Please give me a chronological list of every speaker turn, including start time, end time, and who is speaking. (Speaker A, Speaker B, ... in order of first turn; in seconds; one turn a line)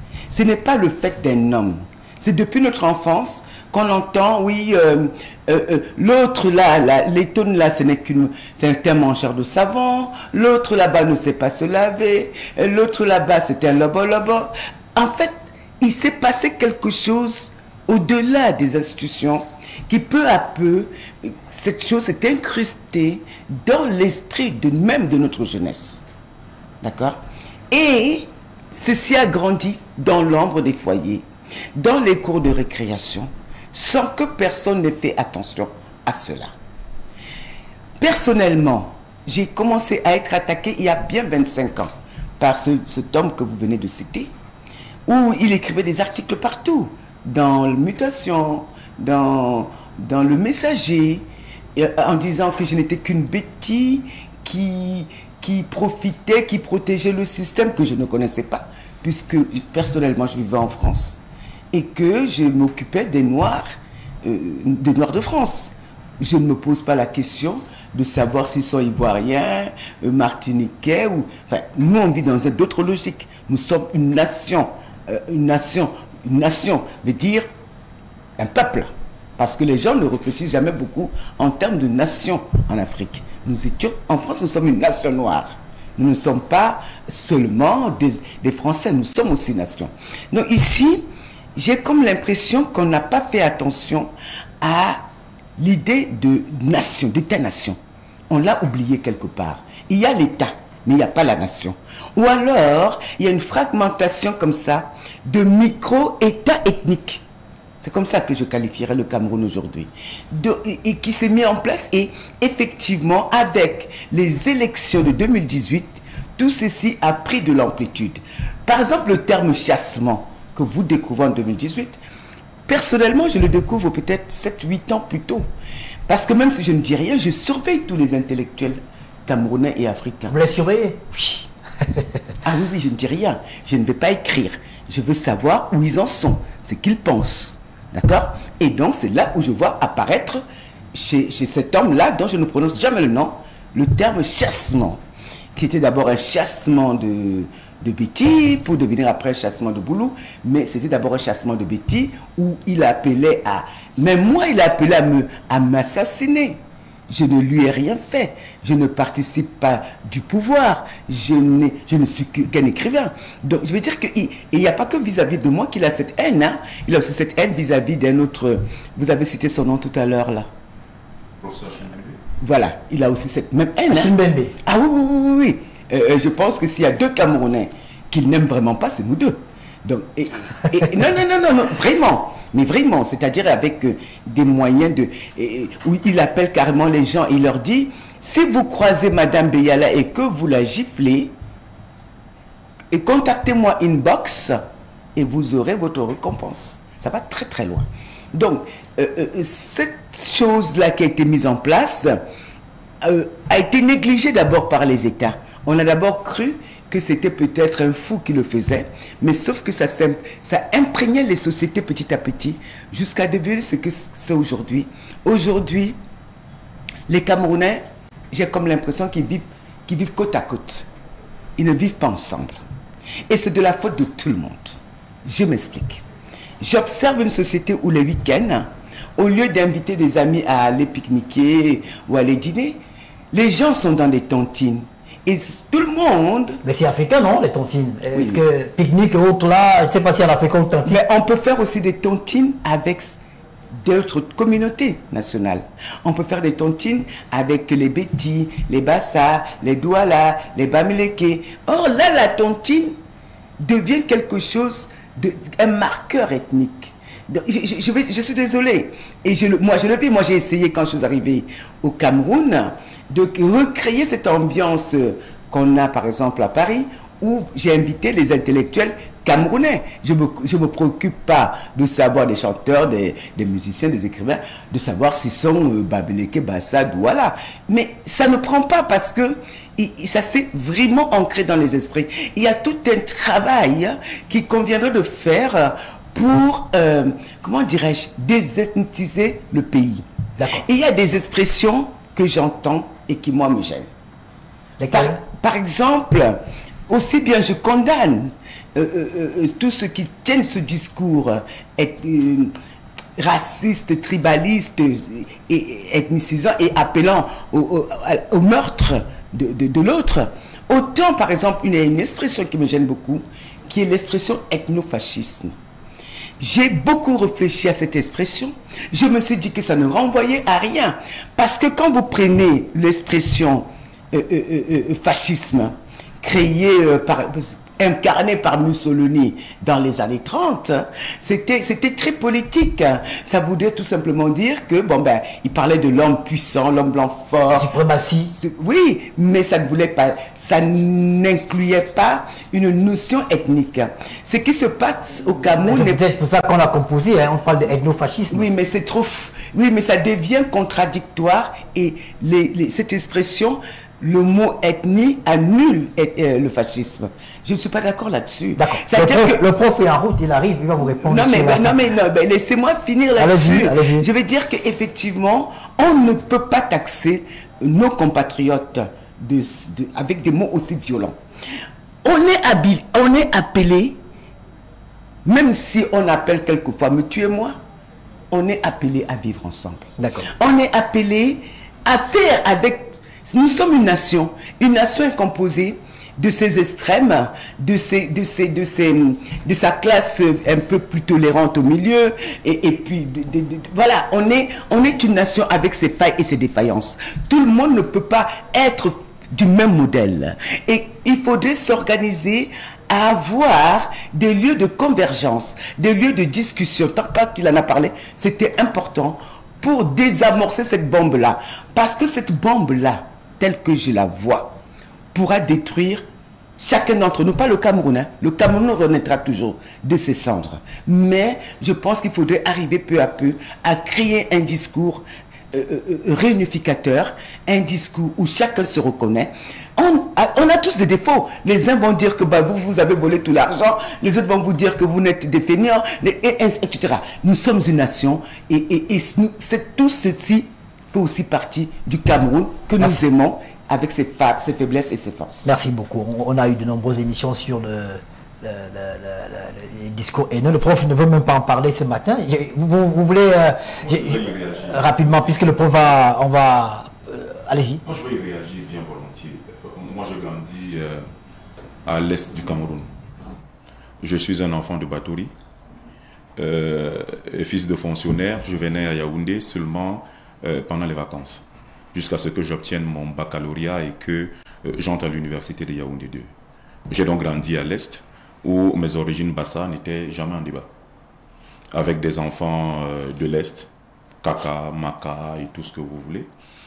Speaker A: 0.3-26.0
Speaker A: 26.8-36.5
Speaker A: 38.0-44.3
Speaker A: 45.0-61.2
Speaker A: 61.7-63.6
Speaker A: 64.2-77.5
Speaker A: 78.4-97.8
Speaker A: 98.3-107.2
Speaker A: 107.8-122.0
Speaker A: 122.7-125.5
Speaker A: 126.1-130.4
Speaker B: 130.3-131.4
Speaker A: 132.4-140.4
Speaker A: 140.9-145.0
Speaker A: 145.6-170.5
Speaker C: 171.4-172.2
Speaker A: 172.4-191.3
Speaker B: 173.9-174.5
Speaker A: 192.9-194.6
Speaker A: 195.2-202.2
Speaker A: 203.0-216.0
Speaker A: 217.1-220.9
Speaker A: 221.6-222.6
Speaker A: 223.3-226.0
Speaker A: 226.6-232.8
Speaker A: 233.3-236.6
Speaker B: 236.6-241.0
Speaker A: 238.1-238.4
Speaker A: 240.8-243.2
Speaker A: 243.8-253.0
Speaker A: 253.6-290.1
Speaker B: 290.4-290.6
Speaker A: 290.6-293.9
Speaker B: 294.8-295.2
Speaker A: 294.9-302.5
Speaker A: 303.2-315.6
Speaker A: 316.4-337.7
Speaker B: 337.5-338.3
Speaker A: 338.3-346.0
Speaker B: 345.6-348.4
Speaker A: 348.3-359.4
Speaker B: 358.6-361.8
Speaker A: 360.8-371.2
Speaker B: 363.2-364.1
Speaker A: 372.0-374.0
Speaker A: 375.2-377.6
Speaker A: 378.3-414.6
Speaker B: 380.0-380.3
Speaker A: 415.1-416.0
Speaker A: 416.6-445.5
Speaker B: 445.4-457.8
Speaker C: 453.8-455.3
Speaker C: 457.8-461.1
Speaker C: 461.8-462.9
Speaker C: 464.0-465.3
Speaker C: 466.4-476.3
Speaker C: 476.9-480.7
Speaker C: 481.7-483.7
Speaker C: 484.2-486.3